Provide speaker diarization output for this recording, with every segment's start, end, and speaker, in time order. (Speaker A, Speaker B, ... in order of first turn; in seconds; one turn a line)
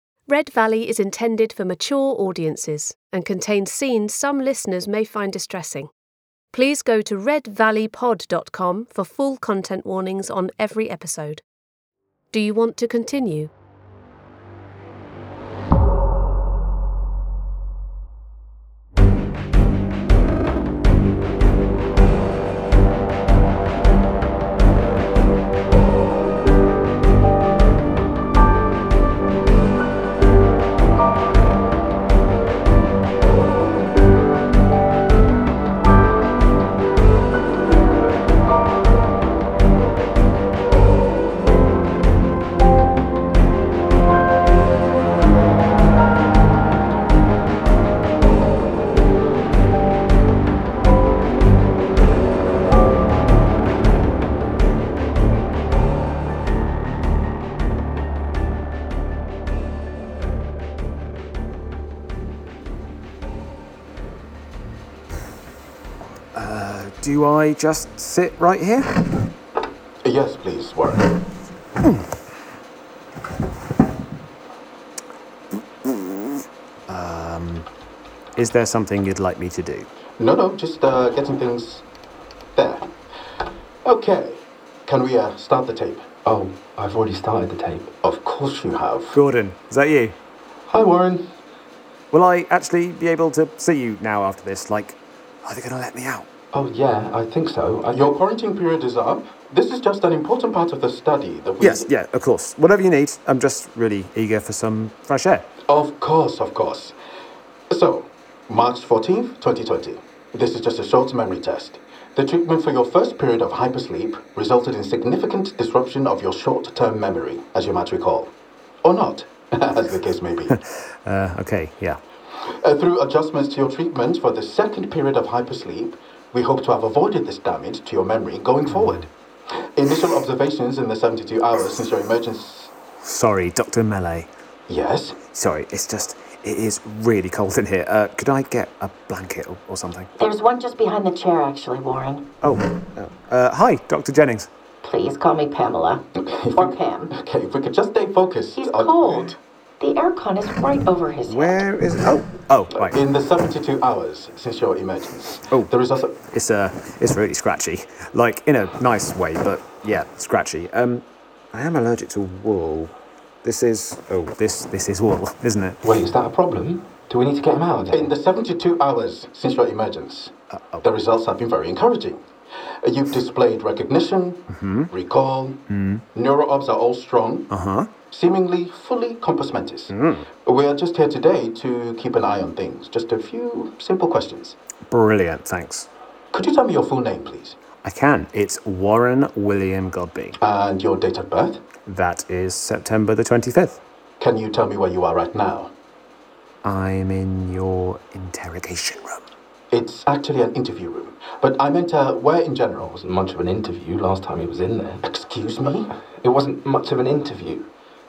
Speaker A: 0.3-5.9
Speaker A: 6.5-11.4
Speaker A: 12.3-13.5
Speaker B: 66.3-69.0
Speaker C: 70.0-71.1
Speaker B: 71.8-72.1
Speaker B: 75.8-77.7
Speaker B: 78.3-79.9
Speaker C: 80.2-81.8
Speaker C: 82.5-82.9
Speaker C: 83.8-86.2
Speaker D: 86.2-87.9
Speaker C: 88.0-89.2
Speaker B: 89.1-90.2
Speaker D: 90.7-91.2
Speaker B: 92.1-96.3
Speaker D: 96.5-98.1
Speaker C: 97.9-101.9
Speaker B: 101.6-105.5
Speaker C: 105.7-106.9
Speaker C: 107.7-118.3
Speaker C: 118.8-120.5
Speaker B: 120.5-122.0
Speaker C: 122.4-129.1
Speaker B: 128.7-129.1
Speaker C: 129.7-132.7
Speaker B: 133.0-134.3
Speaker C: 134.7-135.2
Speaker B: 135.3-140.1
Speaker E: 140.2-142.3
Speaker B: 142.4-144.5
Speaker E: 144.8-147.1
Speaker C: 146.2-149.3
Speaker E: 148.5-151.7
Speaker B: 151.3-153.0
Speaker C: 152.8-156.2
Speaker B: 156.2-165.8
Speaker D: 165.8-168.1
Speaker C: 167.9-172.2
Speaker B: 170.5-170.9
Speaker C: 172.8-175.6
Speaker B: 174.5-174.9
Speaker B: 175.7-176.0
Speaker C: 176.1-177.5
Speaker B: 177.5-177.9
Speaker C: 178.1-179.9
Speaker B: 179.9-180.3
Speaker C: 180.4-184.6
Speaker B: 184.9-185.9
Speaker C: 186.3-187.6
Speaker B: 187.8-190.4
Speaker C: 190.4-191.7
Speaker B: 191.8-193.8
Speaker C: 194.2-195.7
Speaker B: 196.6-199.2
Speaker C: 199.7-202.9
Speaker D: 202.9-205.0
Speaker C: 205.0-205.9
Speaker D: 206.2-207.7